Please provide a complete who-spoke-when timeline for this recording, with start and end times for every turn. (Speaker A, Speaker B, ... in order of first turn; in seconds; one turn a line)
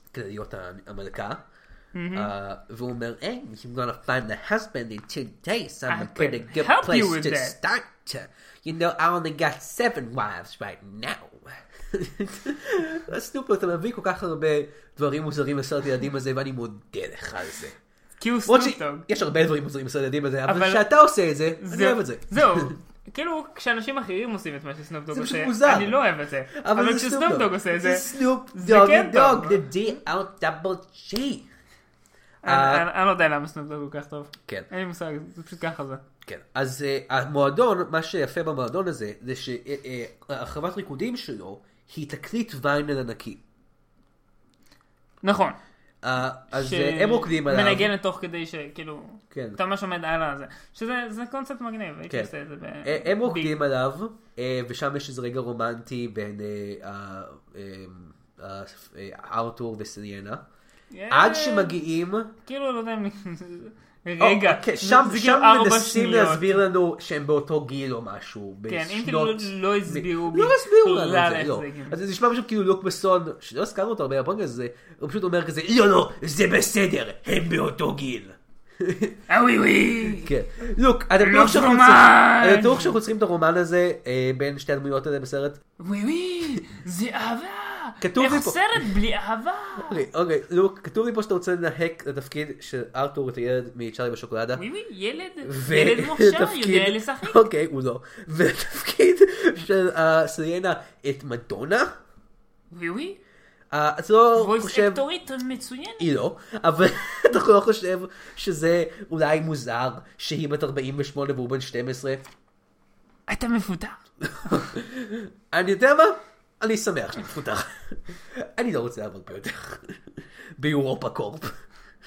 Speaker A: 0.1-1.4
Speaker B: 1.9-2.3
Speaker A: 2.1-17.8
Speaker B: 5.9-7.5
Speaker B: 18.2-19.1
Speaker A: 18.5-22.7
Speaker B: 20.4-20.8
Speaker B: 21.6-29.6
Speaker A: 25.1-26.0
Speaker A: 26.5-31.5
Speaker B: 32.4-36.0
Speaker A: 32.4-32.8
Speaker A: 36.2-43.4
Speaker B: 45.2-45.6
Speaker A: 46.0-47.9
Speaker B: 46.5-53.6
Speaker A: 49.3-49.6
Speaker A: 52.8-60.4
Speaker B: 60.9-61.7
Speaker A: 61.1-62.3
Speaker B: 62.4-66.5
Speaker A: 64.2-79.2
Speaker B: 68.7-72.0
Speaker B: 79.3-80.3
Speaker A: 80.2-85.6
Speaker B: 81.2-82.9
Speaker B: 85.8-90.0
Speaker A: 88.0-88.8
Speaker A: 89.8-94.6
Speaker B: 94.5-97.4
Speaker A: 95.4-101.9
Speaker B: 102.7-103.2
Speaker A: 103.7-105.0
Speaker B: 104.4-106.0
Speaker A: 106.0-112.2
Speaker B: 113.3-114.6
Speaker A: 114.2-120.0
Speaker A: 120.6-121.5